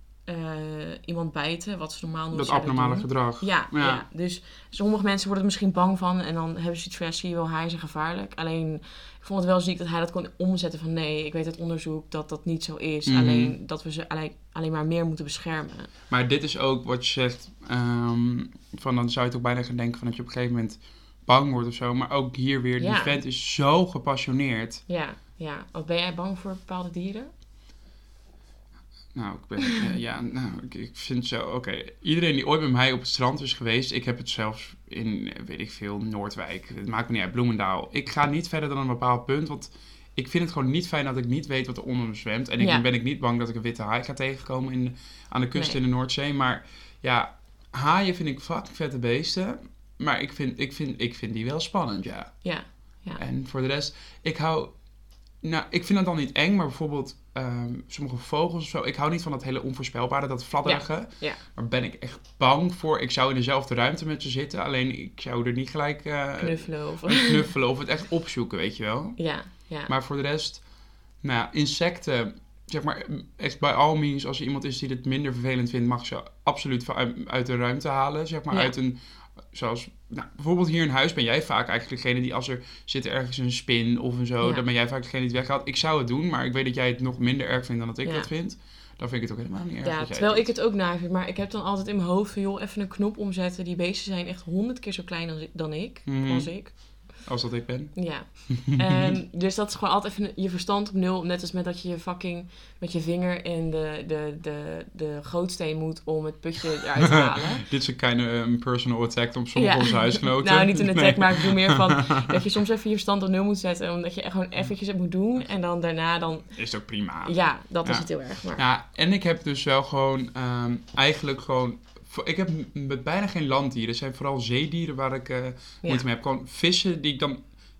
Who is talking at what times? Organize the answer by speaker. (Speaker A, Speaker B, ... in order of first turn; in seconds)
Speaker A: 0.2-15.9, 22.8-23.2, 24.9-27.3, 42.6-42.9, 52.4-53.2, 60.6-61.4, 66.4-67.5, 69.2-69.9, 88.0-88.3, 89.8-97.0, 97.9-107.7, 109.5-116.5, 117.2-118.6
Speaker B: 2.3-4.0, 13.1-13.5, 16.1-24.8, 29.1-52.4, 53.2-54.7, 55.4-69.2, 69.9-70.6, 71.2-79.0, 79.5-90.5, 96.0-99.2, 107.1-112.4, 116.5-127.4